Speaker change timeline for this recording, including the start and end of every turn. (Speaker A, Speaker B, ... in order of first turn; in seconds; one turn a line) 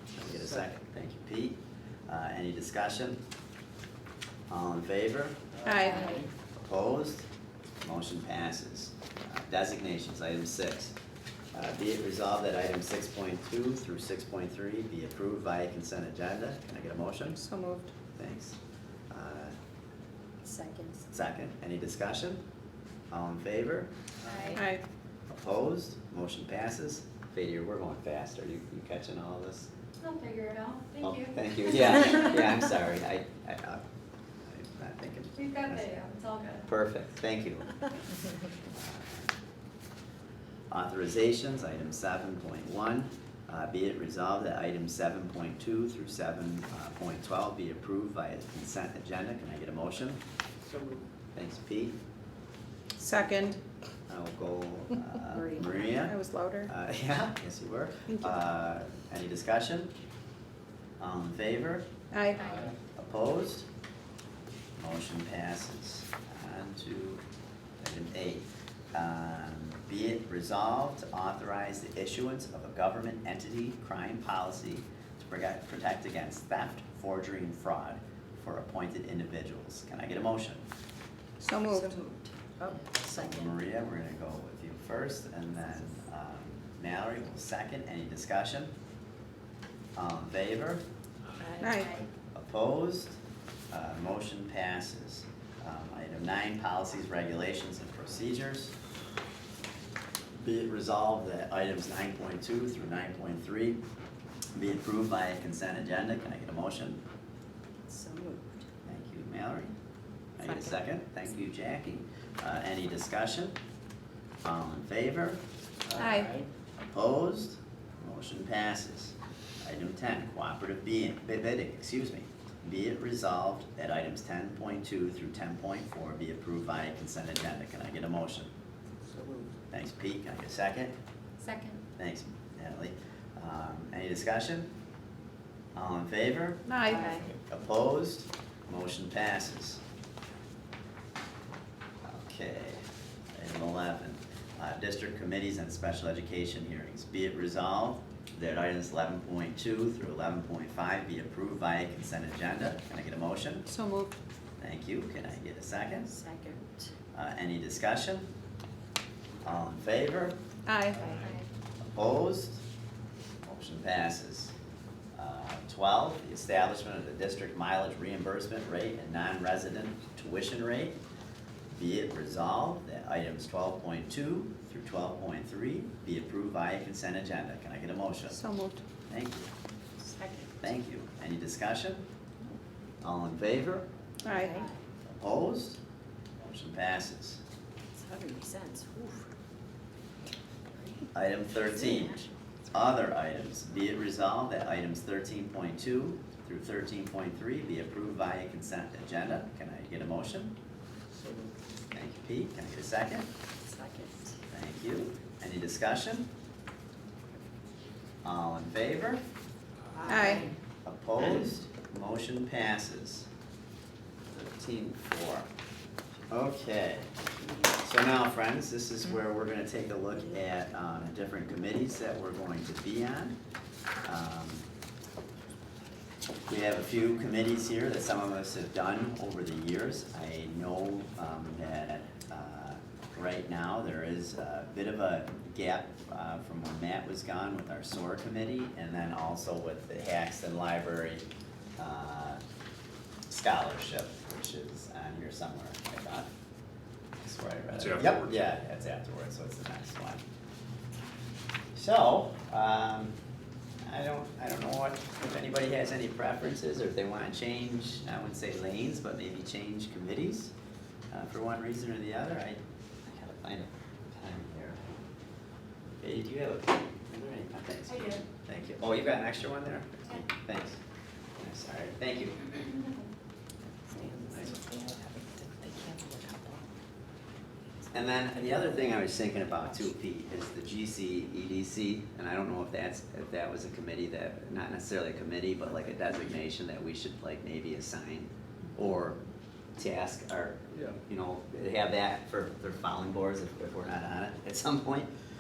Speaker A: 0.1-3.2
Speaker A: 4.5-5.4
Speaker B: 5.6-6.3
Speaker C: 5.7-6.0
Speaker D: 5.7-6.3
Speaker A: 6.5-7.3
Speaker A: 7.8-10.9
Speaker A: 11.5-17.4
Speaker C: 17.4-17.9
Speaker A: 18.1-18.6
Speaker A: 19.1-19.6
Speaker D: 20.4-21.0
Speaker A: 21.1-22.4
Speaker A: 23.1-23.9
Speaker E: 24.2-24.6
Speaker C: 24.6-24.8
Speaker A: 25.3-29.7
Speaker E: 30.0-31.3
Speaker A: 31.0-33.8
Speaker A: 34.5-36.0
Speaker E: 35.4-36.7
Speaker A: 36.7-37.8
Speaker A: 38.7-39.3
Speaker A: 40.7-50.2
Speaker B: 50.6-51.0
Speaker A: 51.4-52.0
Speaker C: 53.0-53.6
Speaker A: 54.1-59.9
Speaker D: 55.3-55.9
Speaker C: 56.0-56.7
Speaker A: 61.0-61.9
Speaker C: 62.1-62.5
Speaker E: 62.3-62.7
Speaker B: 62.4-62.7
Speaker A: 63.0-63.7
Speaker A: 64.8-67.2
Speaker A: 67.8-80.6
Speaker C: 81.4-81.9
Speaker D: 81.7-83.6
Speaker A: 83.0-88.7
Speaker A: 90.0-90.8
Speaker D: 91.4-92.0
Speaker C: 91.6-91.9
Speaker E: 91.7-92.0
Speaker A: 92.3-93.2
Speaker A: 93.7-98.7
Speaker A: 100.4-103.8
Speaker A: 104.6-107.0
Speaker D: 107.9-108.7
Speaker A: 108.8-109.7
Speaker A: 110.4-113.6
Speaker D: 110.4-110.8
Speaker A: 114.4-115.4
Speaker B: 115.9-116.5
Speaker C: 116.0-116.3
Speaker A: 116.9-128.5
Speaker B: 129.1-129.5
Speaker A: 129.7-130.9
Speaker E: 131.4-131.8
Speaker A: 132.0-134.7
Speaker A: 135.8-136.7
Speaker C: 136.7-137.1
Speaker D: 136.9-137.3
Speaker A: 137.5-139.8
Speaker A: 142.0-142.8
Speaker A: 143.3-153.7
Speaker C: 153.7-154.2
Speaker A: 154.6-156.2
Speaker D: 156.1-156.9
Speaker A: 157.1-158.3
Speaker A: 159.4-160.4
Speaker C: 160.7-161.1
Speaker E: 161.1-161.5
Speaker A: 161.8-162.6
Speaker A: 163.4-164.5
Speaker A: 165.2-171.0
Speaker A: 171.7-178.4
Speaker C: 178.3-178.8
Speaker A: 179.1-179.5
Speaker D: 180.0-180.6
Speaker A: 180.6-182.1
Speaker A: 183.0-183.9
Speaker C: 184.2-184.6
Speaker D: 184.3-184.8
Speaker A: 185.1-185.8
Speaker A: 186.4-187.4
Speaker D: 187.9-189.3
Speaker D: 190.7-191.1
Speaker A: 191.1-192.2
Speaker D: 191.7-193.0
Speaker A: 192.7-200.6
Speaker B: 201.2-201.5
Speaker A: 201.9-203.3
Speaker D: 203.7-204.4
Speaker A: 204.5-206.3
Speaker A: 208.2-209.2
Speaker D: 209.9-210.6
Speaker C: 210.1-210.5
Speaker A: 210.8-213.3
Speaker A: 214.3-215.5
Speaker A: 216.3-217.1
Speaker A: 217.8-223.4
Speaker A: 224.1-224.7
Speaker A: 226.5-241.2
Speaker A: 241.8-242.4
Speaker A: 243.3-246.3
Speaker A: 247.2-250.2
Speaker A: 251.7-253.1
Speaker A: 253.8-260.5
Speaker A: 261.1-264.8
Speaker A: 266.0-270.8
Speaker E: 267.9-268.2
Speaker A: 271.4-272.8
Speaker D: 273.9-276.6
Speaker A: 274.3-274.5
Speaker A: 277.9-289.2
Speaker D: 278.4-278.7
Speaker A: 289.8-295.1